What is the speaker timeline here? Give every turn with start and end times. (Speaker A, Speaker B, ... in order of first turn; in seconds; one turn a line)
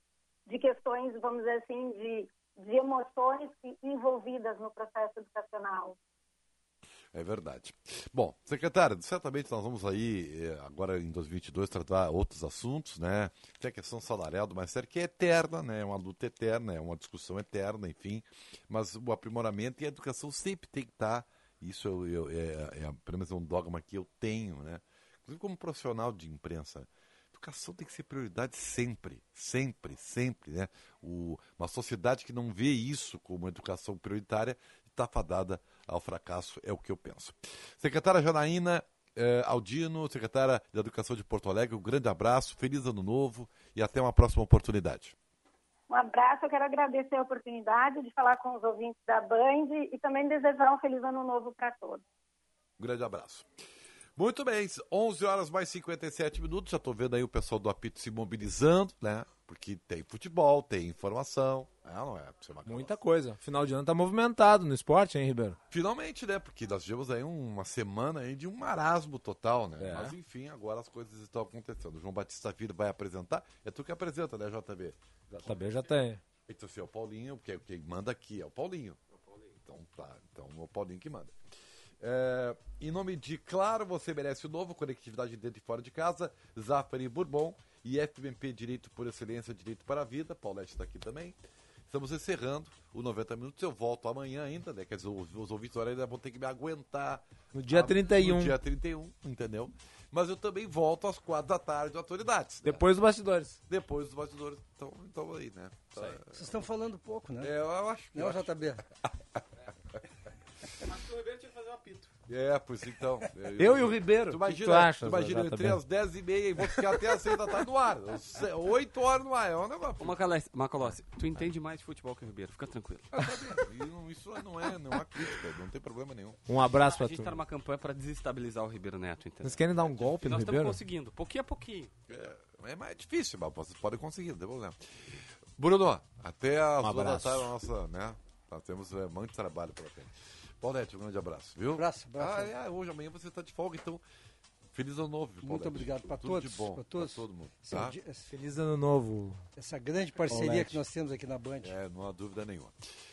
Speaker A: 0.5-6.0
Speaker B: 7.1-45.1
Speaker A: 45.9-52.0
Speaker B: 52.8-53.5
Speaker B: 54.1-63.0
Speaker C: 62.7-65.6
Speaker B: 65.7-75.8
Speaker C: 69.8-70.1
Speaker C: 75.4-76.2
Speaker B: 76.5-79.0
Speaker B: 79.6-81.3
Speaker B: 82.0-91.3
Speaker B: 91.9-102.8
Speaker C: 97.5-98.5
Speaker C: 102.6-103.6
Speaker B: 103.7-106.5
Speaker D: 106.3-107.5
Speaker B: 107.4-108.8
Speaker D: 108.1-108.8
Speaker E: 110.9-112.1
Speaker B: 112.3-120.2
Speaker C: 113.6-115.8
Speaker E: 120.0-123.6
Speaker B: 123.2-126.4
Speaker C: 126.5-127.4
Speaker E: 126.7-131.9
Speaker C: 129.4-130.8
Speaker B: 132.1-134.8
Speaker B: 135.6-144.0
Speaker C: 136.8-137.5
Speaker D: 141.8-142.5
Speaker B: 144.7-148.0
Speaker D: 145.4-148.3
Speaker C: 148.3-149.4
Speaker D: 149.6-151.7
Speaker C: 150.3-150.8
Speaker B: 151.6-152.8